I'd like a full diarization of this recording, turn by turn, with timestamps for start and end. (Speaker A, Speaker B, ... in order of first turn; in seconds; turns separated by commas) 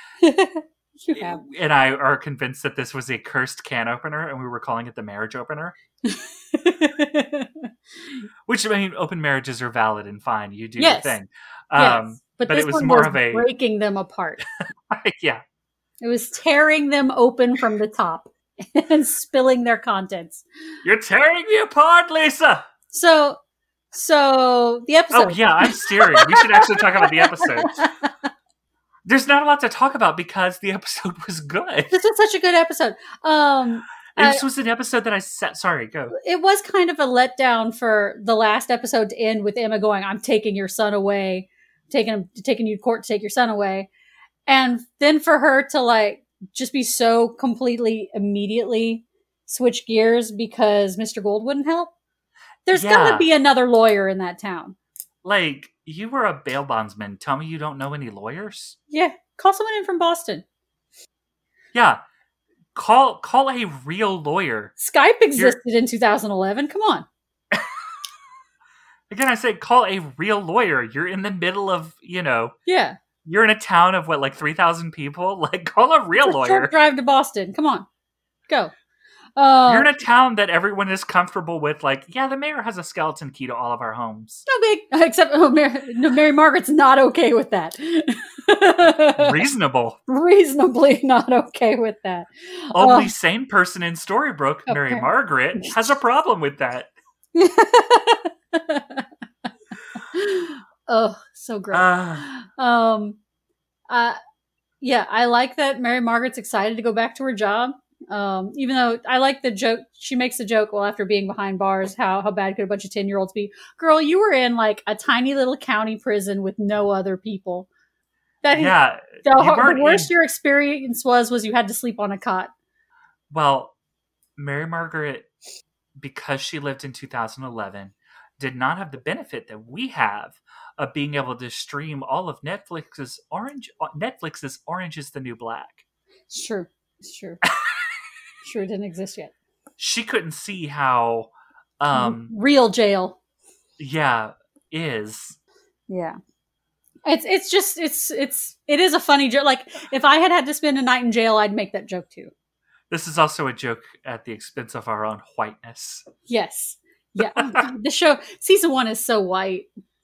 Speaker A: 0.2-1.4, Speaker B: 1.1-5.8, Speaker A: 6.0-7.7, Speaker B: 8.5-13.5, Speaker A: 10.8-11.2, Speaker A: 11.8-14.4, Speaker B: 14.9-15.4, Speaker A: 16.0-20.4, Speaker B: 20.8-22.7, Speaker A: 22.9-23.4, Speaker A: 23.9-28.3, Speaker B: 25.1-27.8, Speaker B: 29.0-31.9, Speaker A: 31.9-34.4, Speaker B: 34.1-36.1, Speaker A: 36.1-43.9, Speaker A: 44.5-51.9, Speaker A: 52.6-54.8, Speaker B: 52.7-53.3, Speaker B: 55.2-58.8, Speaker A: 58.9-60.4, Speaker B: 61.7-62.0, Speaker B: 62.7-64.7, Speaker A: 64.8-67.0, Speaker B: 69.1-72.5, Speaker A: 72.7-73.0, Speaker B: 73.2-76.7, Speaker A: 76.2-77.9, Speaker A: 78.5-78.7, Speaker A: 79.4-79.9, Speaker B: 79.7-84.4, Speaker A: 84.5-89.4, Speaker B: 89.2-90.0, Speaker A: 90.1-93.1, Speaker B: 92.7-96.9, Speaker A: 94.7-95.1, Speaker A: 97.3-99.0, Speaker A: 100.0-103.2, Speaker B: 101.7-102.3, Speaker A: 103.9-104.2, Speaker A: 104.8-117.7, Speaker A: 118.4-122.5, Speaker B: 118.5-120.1, Speaker B: 123.3-123.7, Speaker B: 124.3-125.3, Speaker B: 126.0-135.8, Speaker A: 136.3-137.4, Speaker A: 138.4-139.3, Speaker B: 139.8-142.3, Speaker A: 141.9-143.2, Speaker B: 143.8-145.4, Speaker A: 145.9-146.2, Speaker A: 147.1-152.3, Speaker B: 152.9-156.0, Speaker A: 156.3-159.7, Speaker B: 157.2-157.6